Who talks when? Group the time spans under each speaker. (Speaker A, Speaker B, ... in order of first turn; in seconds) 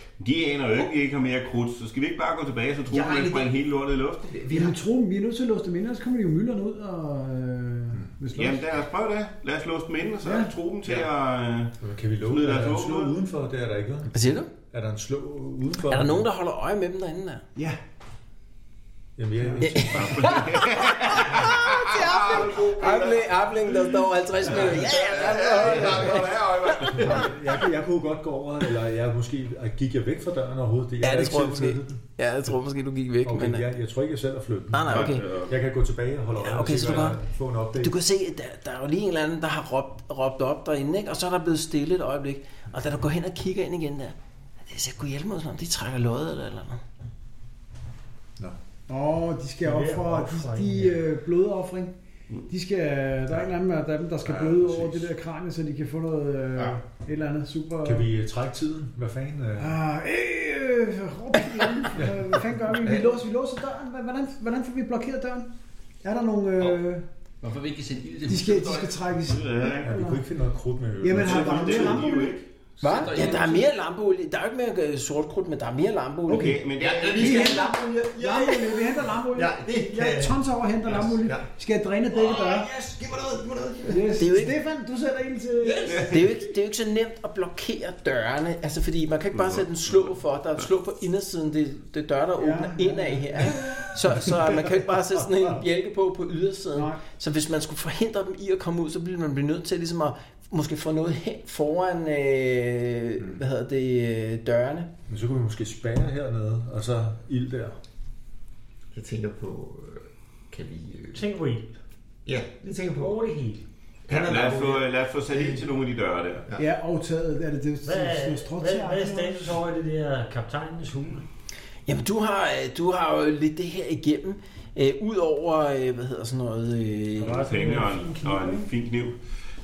Speaker A: 0.2-4.4, 8.3-13.2, 19.9-27.3, 34.9-35.6, 69.3-69.8, 71.1-72.5, 76.3-77.6, 89.3-90.6, 114.1-116.5, 127.3-129.2
Speaker B: 4.3-4.8, 25.6-26.1, 62.8-63.2, 76.8-81.5, 82.1-84.2, 85.6-86.0, 108.9-111.3, 112.3-113.2, 114.1-114.8
Speaker C: 4.5-8.6, 10.2-10.5, 19.4-20.0, 48.9-51.9, 52.5-58.1, 59.6-65.5, 66.0-67.1, 68.3-70.2, 71.0-72.4, 76.3-82.7, 83.9-86.2, 92.4-93.8, 96.7-97.0, 114.2-114.7, 116.6-119.6
Speaker D: 11.8-16.3, 19.2-20.7, 24.5-32.0, 33.2-38.0, 54.2-55.1, 57.8-59.8, 61.9-62.5, 69.7-72.1, 105.1-107.8
Speaker E: 14.1-14.5, 15.9-17.4, 19.6-27.2, 31.0-33.7, 34.7-35.3, 36.4-37.2, 37.8-44.1, 44.7-46.8, 72.8-76.5, 84.2-84.6, 86.0-104.9, 121.9-127.5
Speaker F: 49.6-51.0, 111.1-111.7, 113.0-113.7, 117.8-121.3, 127.2-128.7
Speaker G: 67.4-69.0, 72.8-73.7, 76.8-77.7